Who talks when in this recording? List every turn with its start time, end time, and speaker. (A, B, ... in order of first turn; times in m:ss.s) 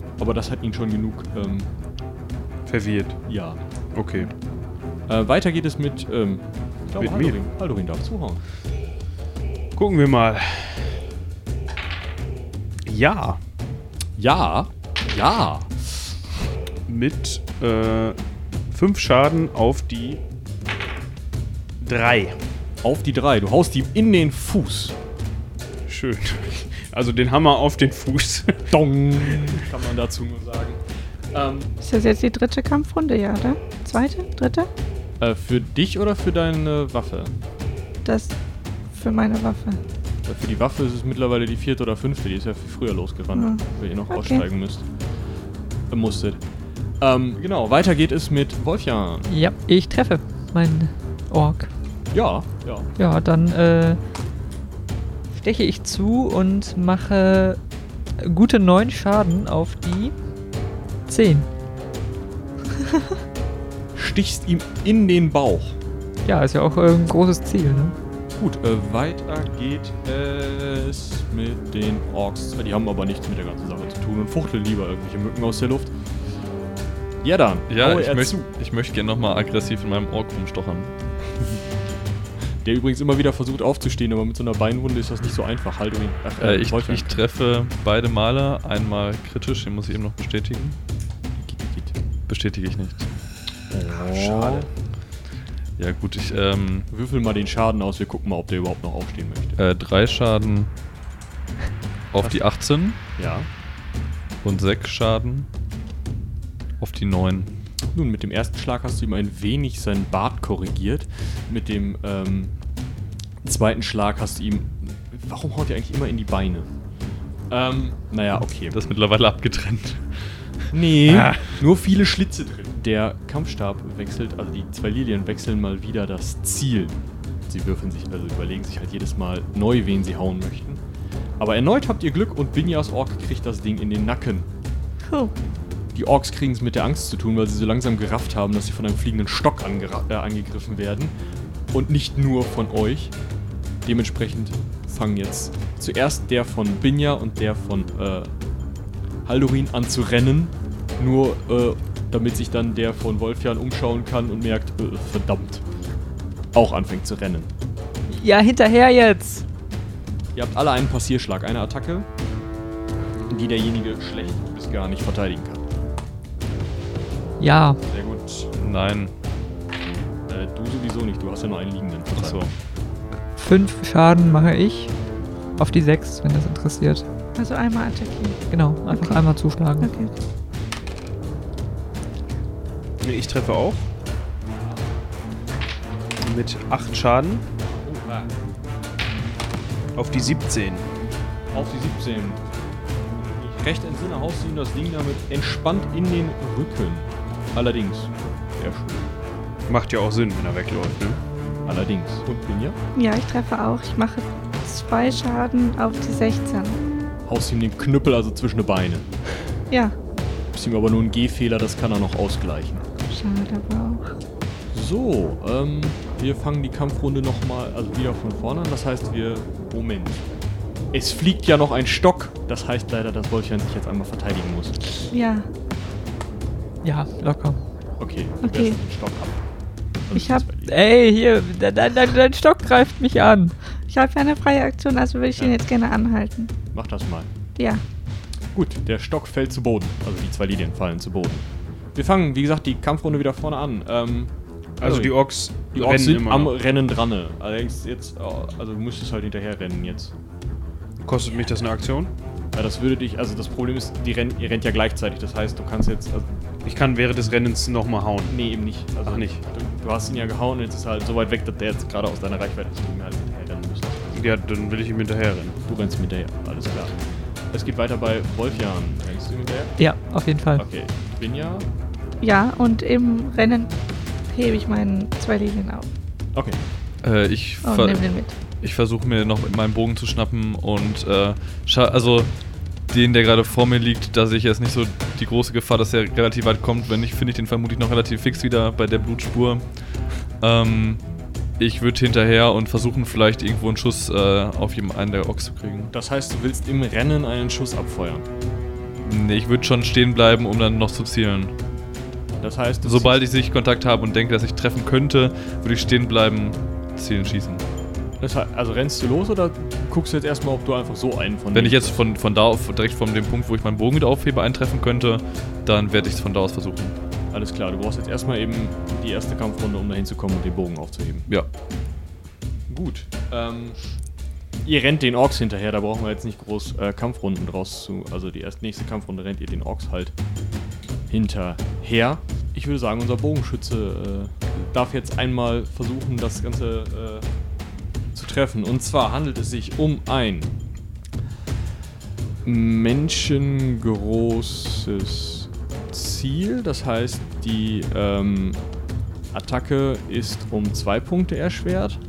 0:00.2-0:01.7 A
0:02.7-0:03.2 B
0:03.3-0:03.6 A
0:03.9-0:04.3 B
0:05.1-0:08.4 A
0:07.0-0:07.4 B
0:09.8-0:11.0 B
0:12.9-0:13.4 B
0:14.2-0:16.1 A
0:16.9-0:18.2 B
0:18.7-0:20.2 B
0:21.8-0:22.4 B
0:22.8-0:25.0 A
0:25.9-0:29.5 B
0:28.7-0:30.8 A
0:31.3-0:31.7 A
0:31.8-0:34.7 C
0:35.2-0:37.3 A
0:38.0-0:38.4 C
0:38.9-0:39.8 C
0:40.3-0:44.8 A
0:43.3-0:44.4 C
0:45.9-0:46.4 A
0:47.0-0:49.3 A
0:49.3-0:51.7 D
0:52.1-0:52.9 A
0:53.0-0:54.0 D
0:55.3-0:57.6 D
0:58.2-1:00.2 D
1:01.1-1:01.5 D
1:04.0-1:05.8 A
1:06.2-1:08.0 D
1:08.4-1:15.9 A
1:17.2-1:18.5 A
1:17.7-1:20.9 E
1:22.6-1:27.2 A
1:26.4-1:30.8 E
1:31.4-1:31.9 A
1:32.3-1:33.1 E
1:33.7-1:34.7 A
1:34.0-1:34.7 E
1:35.8-1:36.9 E
1:36.9-1:39.6 A
1:39.6-1:40.7 E
1:42.1-1:43.0 E
1:43.2-1:43.5 A
1:44.4-1:45.5 E
1:46.8-1:47.5 E
1:47.9-1:52.5 A
1:53.4-1:56.7 A
1:57.5-1:58.8 A
1:58.7-2:01.5 E
2:00.7-2:10.8 A
2:11.4-2:14.5 A
2:15.9-2:21.1 A
2:21.7-2:23.1 A
2:23.8-2:28.3 A
2:29.2-2:35.6 A
2:36.5-2:37.5 A
2:38.1-2:39.4 D
2:40.4-2:42.1 A
2:43.3-2:45.6 A
2:47.4-2:47.8 D
2:47.9-2:48.5 A
2:48.6-2:49.1 E
2:50.3-2:52.4 A
2:52.1-2:52.5 E
2:53.4-2:54.9 D
2:55.6-2:57.0 D
2:57.4-2:59.2 C
2:58.5-2:59.9 D
2:59.8-3:00.1 C
3:03.0-3:03.9 B
3:06.2-3:07.4 B
3:07.8-3:08.3 A
3:10.0-3:10.9 B
3:11.5-3:12.4 A
3:13.2-3:19.1 A
3:19.7-3:21.2 B
3:21.7-3:22.8 A
3:23.0-3:26.8 C
3:27.3-3:29.6 A
3:29.7-3:30.0 C
3:30.5-3:32.9 A
3:33.1-3:34.1 C
3:34.7-3:40.4 A
3:40.9-3:44.8 A
3:45.1-3:45.5 C
3:46.8-3:47.6 D
3:48.0-3:49.4 A
3:48.4-3:48.8 C
3:50.1-3:50.8 A
3:50.1-3:50.4 C
3:50.7-3:53.6 D
3:53.9-3:56.6 C
3:56.7-3:57.3 A
3:57.6-3:57.8 C
3:58.5-4:05.2 A
4:04.8-4:06.6 B
4:05.7-4:10.1 A
4:11.0-4:12.1 B
4:12.5-4:16.3 A
4:16.6-4:18.4 B
4:18.3-4:24.3 A
4:19.1-4:19.4 B
4:24.1-4:25.6 B
4:25.7-4:26.9 A
4:27.5-4:29.8 A
4:29.8-4:30.6 D
4:30.6-4:31.7 A
4:32.2-4:33.7 C
4:34.3-4:35.9 C
4:36.3-4:36.6 A
4:37.0-4:38.0 E
4:37.6-4:38.3 C
4:38.6-4:42.3 E
4:42.9-4:49.6 E
4:50.4-4:51.0 E
4:51.6-4:55.9 E
4:55.9-4:58.3 A
4:59.0-5:01.5 E
5:02.4-5:03.2 A
5:02.8-5:07.6 E
5:08.2-5:12.0 A
5:11.5-5:17.0 E
5:17.3-5:21.3 A
5:22.7-5:23.8 A
5:24.6-5:30.1 A
5:31.1-5:37.3 A
5:38.1-5:40.5 A
5:42.4-5:48.6 A
5:49.3-5:52.0 A